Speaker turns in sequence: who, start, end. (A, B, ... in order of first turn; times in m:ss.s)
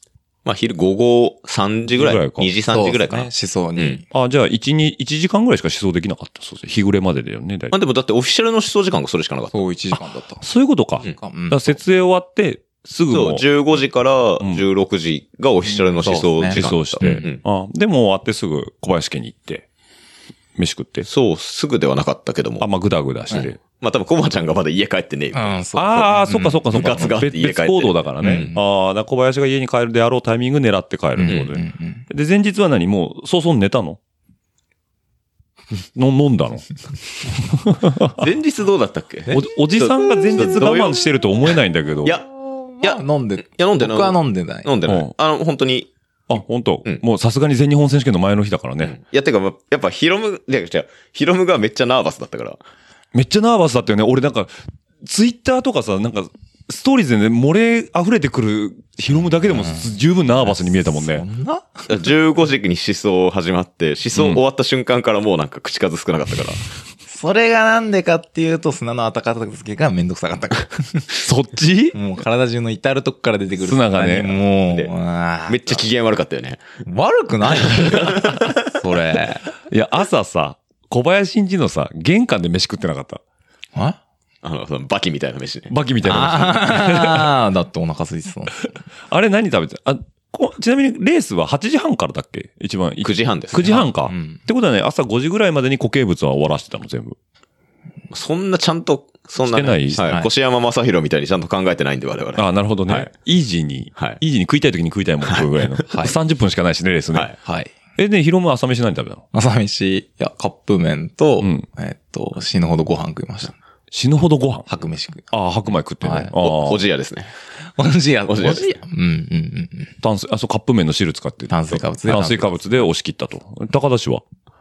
0:00.4-0:04.0 A
0:01.9-0:02.5 B
0:02.7-0:04.0 C
0:04.1-0:07.7 B
0:07.7-0:09.6 A
0:09.5-0:10.4 C
0:10.4-0:13.4 B
0:11.0-0:11.8 C
0:13.1-0:17.4 A
0:15.9-0:17.3 C
0:16.5-0:19.6 B
0:20.6-0:21.1 B
0:21.0-0:22.7 A
0:22.6-0:23.6 B
0:23.3-0:25.6 A
0:25.3-0:27.1 C
0:25.8-0:34.0 B
0:26.7-0:28.5 A
0:28.2-0:28.6 C
0:31.2-0:32.0 C
0:35.9-0:38.2 B
0:38.2-0:41.0 A
0:39.3-0:42.2 B
0:42.8-0:44.7 C
0:42.8-0:45.9 A
0:44.9-0:45.1 B
0:46.3-0:49.0 B
0:48.8-0:52.6 A
0:53.1-1:01.2 B
0:59.5-0:59.9 C
1:00.4-1:01.9 C
1:01.9-1:06.6 A
1:04.1-1:04.4 B
1:07.1-1:11.0 C
1:11.1-1:12.0 B
1:11.9-1:15.8 C
1:13.6-1:14.4 B
1:15.5-1:16.6 A
1:16.8-1:19.4 C
1:18.0-1:18.5 A
1:19.7-1:23.2 B
1:24.4-1:25.7 A
1:25.7-1:27.3 B
1:26.0-1:28.7 C
1:29.1-1:37.2 B
1:33.0-1:33.7 A
1:33.6-1:34.4 C
1:38.1-1:43.1 A
1:39.4-1:40.0 B
1:40.0-1:40.3 C
1:42.4-1:47.3 B
1:45.3-1:45.7 A
1:45.9-1:46.1 C
1:47.4-1:47.7 C
1:48.0-1:49.2 B
1:49.3-1:53.6 C
1:51.4-1:51.6 B
1:53.9-1:54.6 B
1:54.7-1:55.3 C
1:55.3-1:56.8 B
1:56.0-1:56.3 C
1:56.4-1:57.3 A
1:57.8-1:59.9 C
1:58.3-1:58.8 A
2:00.0-2:04.2 B
2:01.5-2:02.6 C